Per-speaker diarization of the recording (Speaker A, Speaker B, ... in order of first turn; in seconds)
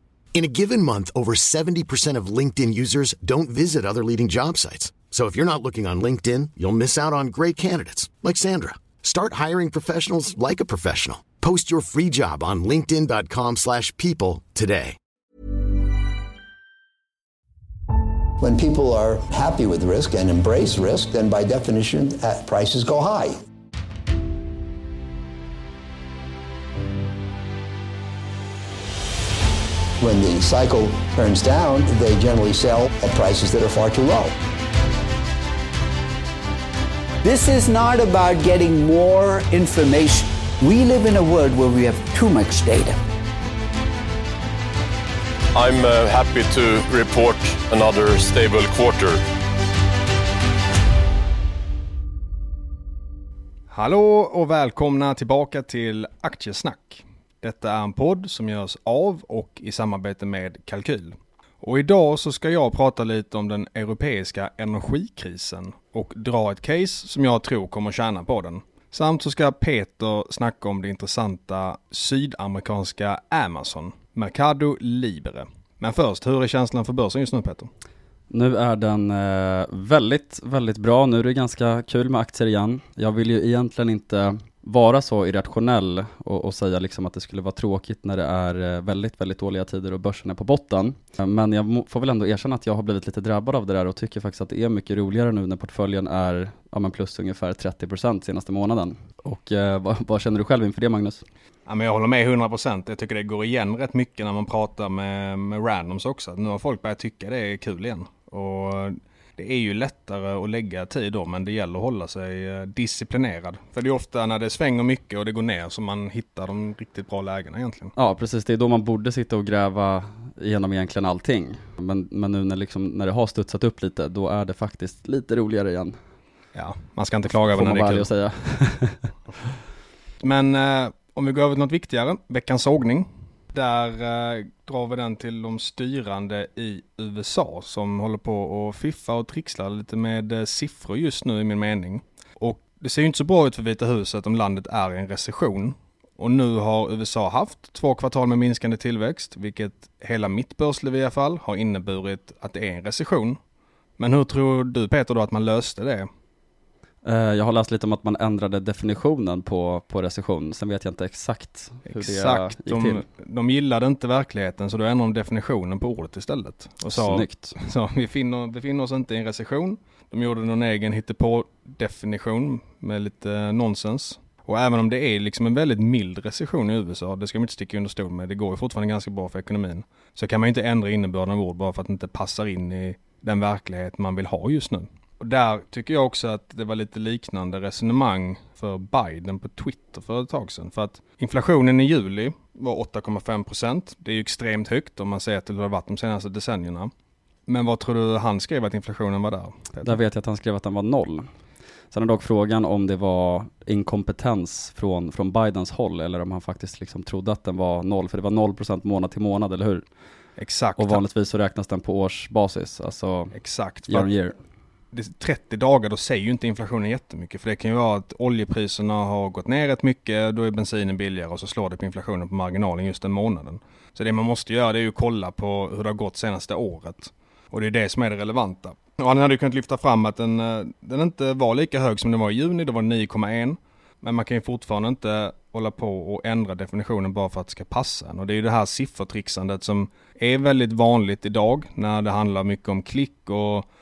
Speaker A: 0.3-15.0
Speaker B: 18.4-23.4, 30.0-34.4
Speaker C: 37.2-43.0
Speaker D: 45.5-49.2
Speaker E: 53.7-77.7, 101.7-117.9, 126.5-128.1, 130.2-153.4, 154.0-156.1, 161.9-196.9, 197.5-200.0, 210.4-211.0, 213.3-214.1, 214.9-243.7
Speaker F: 78.3-101.2, 118.0-126.0, 127.5-129.1, 157.0-163.0, 166.9-167.5, 199.8-201.3, 201.9-209.8, 210.8-213.3, 213.9-214.3